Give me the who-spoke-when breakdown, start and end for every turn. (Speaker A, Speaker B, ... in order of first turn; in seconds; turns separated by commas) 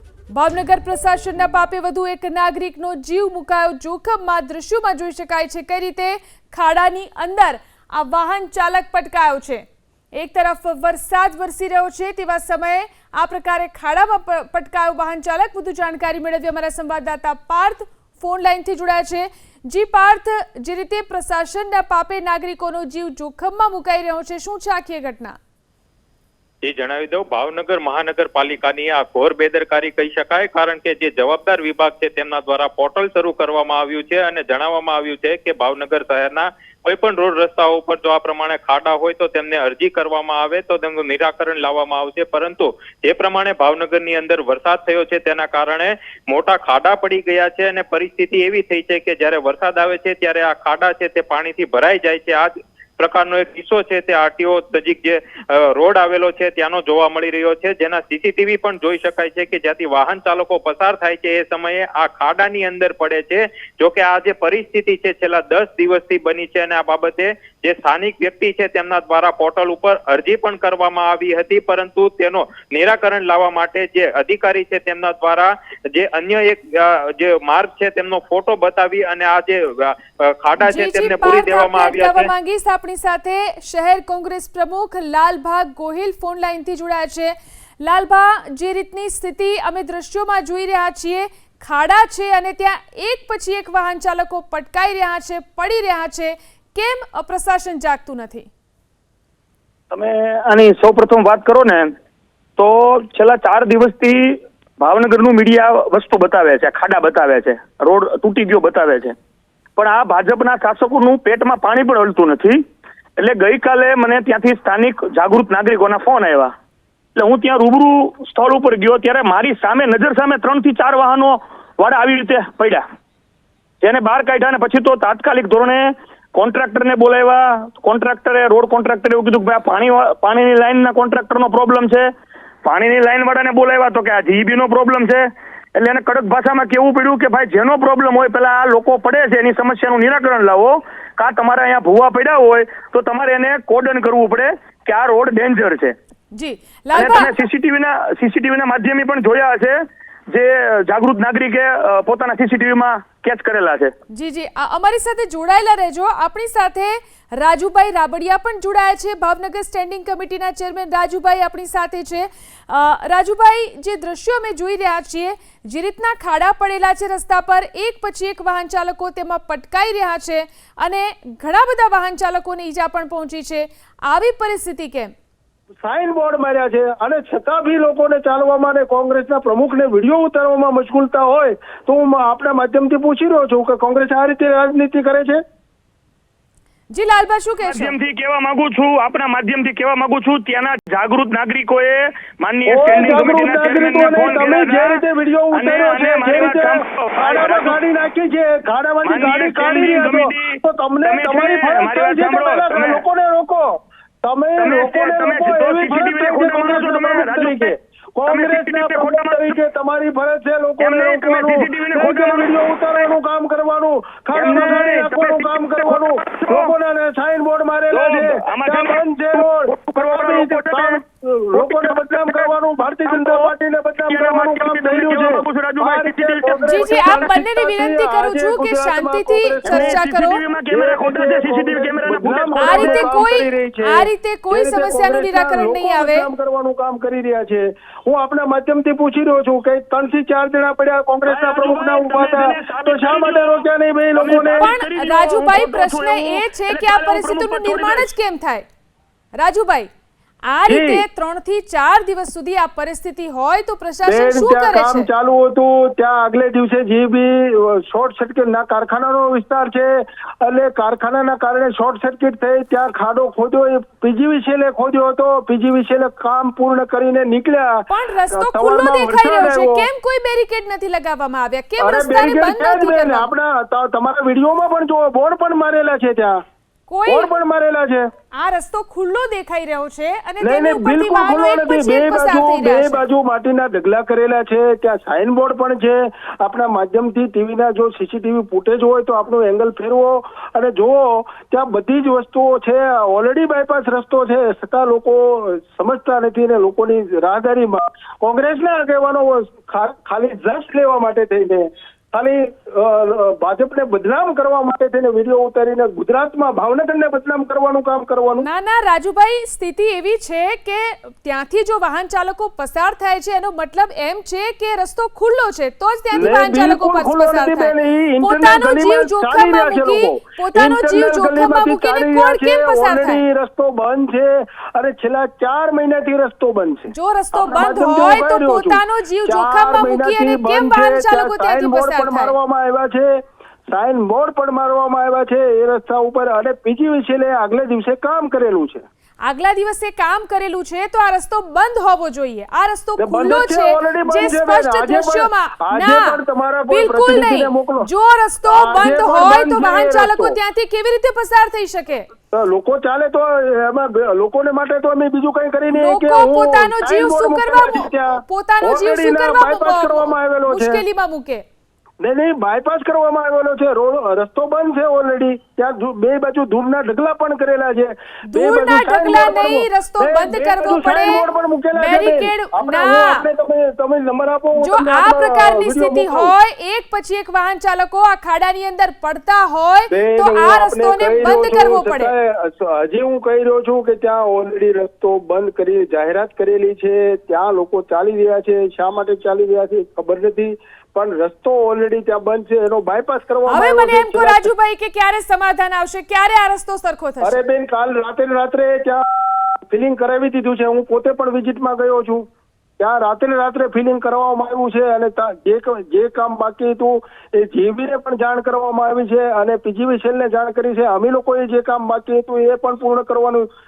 Speaker A: 0.3-25.4, Speaker B: 26.6-82.3, Speaker A: 80.6-98.5, Speaker C: 99.9-101.9, Speaker C: 102.6-109.2, Speaker C: 109.8-112.6, Speaker C: 113.2-116.5, Speaker C: 117.2-122.8, Speaker C: 123.8-132.1, Speaker C: 132.7-146.0, Speaker A: 146.3-147.3, Speaker C: 146.9-149.8, Speaker C: 150.3-153.9, Speaker A: 154.1-175.1, Speaker D: 175.8-185.4, Speaker A: 186.9-187.9, Speaker C: 187.7-195.0, Speaker D: 192.7-203.7, Speaker C: 195.5-197.8, Speaker C: 199.0-203.0, Speaker D: 204.2-230.0, Speaker C: 204.6-207.7, Speaker C: 208.3-209.6, Speaker C: 210.8-213.0, Speaker C: 214.3-216.7, Speaker C: 217.9-221.0, Speaker C: 221.6-222.5, Speaker C: 223.1-223.5, Speaker C: 224.1-227.1, Speaker A: 226.7-230.4, Speaker C: 229.7-233.2, Speaker D: 230.7-244.7, Speaker A: 232.6-236.3, Speaker C: 241.2-243.6, Speaker C: 244.2-248.1, Speaker A: 244.6-248.7, Speaker A: 249.4-249.9, Speaker A: 250.5-255.1, Speaker D: 250.7-251.0, Speaker D: 254.0-259.9, Speaker D: 260.4-269.9, Speaker A: 267.9-273.3, Speaker D: 271.8-276.4, Speaker A: 276.9-277.3, Speaker D: 277.1-278.1, Speaker A: 278.3-283.0, Speaker D: 280.4-308.5, Speaker A: 308.4-323.2, Speaker D: 316.1-333.1, Speaker A: 326.9-332.3, Speaker D: 333.7-338.9, Speaker A: 339.2-346.2, Speaker D: 343.0-347.9, Speaker A: 346.7-352.1, Speaker D: 348.5-350.4, Speaker D: 352.3-360.8, Speaker A: 355.7-361.4, Speaker D: 362.0-376.3, Speaker A: 368.3-373.2, Speaker A: 374.6-382.1, Speaker D: 379.9-394.5, Speaker A: 393.5-397.4, Speaker D: 397.2-402.2, Speaker D: 402.8-413.5